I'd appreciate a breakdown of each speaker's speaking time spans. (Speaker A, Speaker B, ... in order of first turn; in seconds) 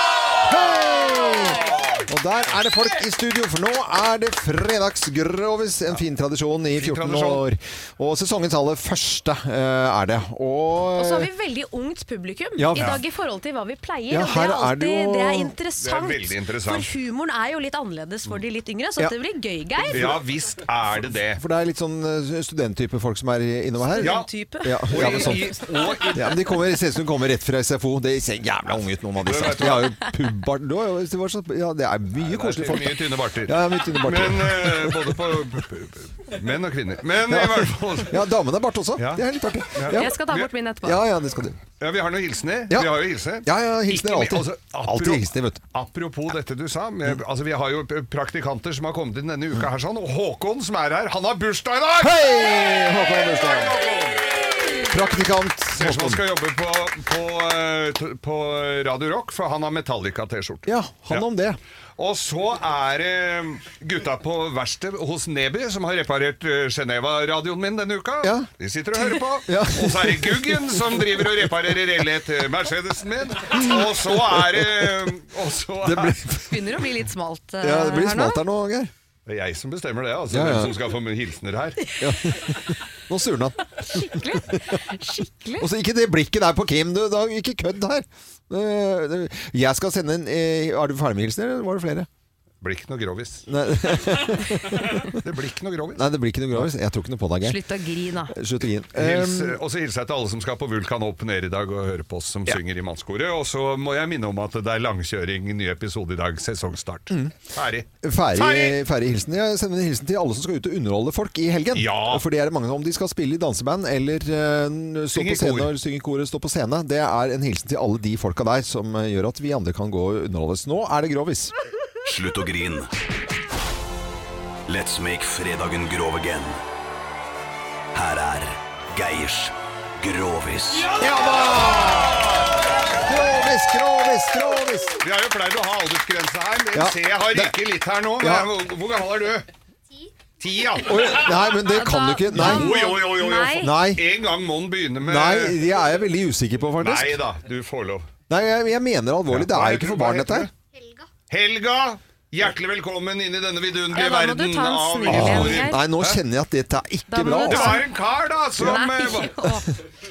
Speaker A: 0.4-11.3, 12.6-13.0, 14.1-15.5, 19.9-20.2, 21.4-25.5, 26.1-35.3, 37.3-40.1, 40.8-41.6, 42.7-45.6, 52.0-53.8, 54.8-56.2, 60.6-61.6, 68.2-68.5, 69.1-71.5, 73.5-74.9, 75.8-76.8, 77.6-78.9, 80.3-80.8, 82.0-84.8, 85.6-92.1, 93.5-95.1, 96.0-97.6, 98.3-99.6, 108.0-121.5, 131.0-132.5, 133.0-135.0, 136.7-137.5, 138.2-138.5, 140.8-144.0, 145.0-147.2, 148.3-150.5, 155.1-157.8
Speaker B: 1.1-1.8, 10.9-20.2, 23.9-25.9, 39.9-41.0, 76.5-78.4, 83.9-85.7, 97.4-98.3, 141.5-143.7, 153.9-155.8, 157.1-157.8, 158.6-159.7
Speaker C: 6.7-7.4, 12.7-13.0, 15.8-16.9, 19.9-21.4, 24.0-24.3, 24.9-26.4, 29.2-29.9, 32.2-38.2, 39.0-39.2, 39.7-40.5, 41.8-54.8, 55.8-61.2, 62.0-76.2, 79.2-81.9, 92.6-93.4, 94.7-96.6, 98.9-108.8, 111.7-112.2, 115.1-115.7, 130.9-132.5, 135.0-139.5, 140.4-141.3, 142.3-145.6, 146.8-148.1, 149.3-150.5, 151.3-156.2, 157.4-159.5
Speaker D: 122.0-122.9, 124.7-126.6, 127.9-130.9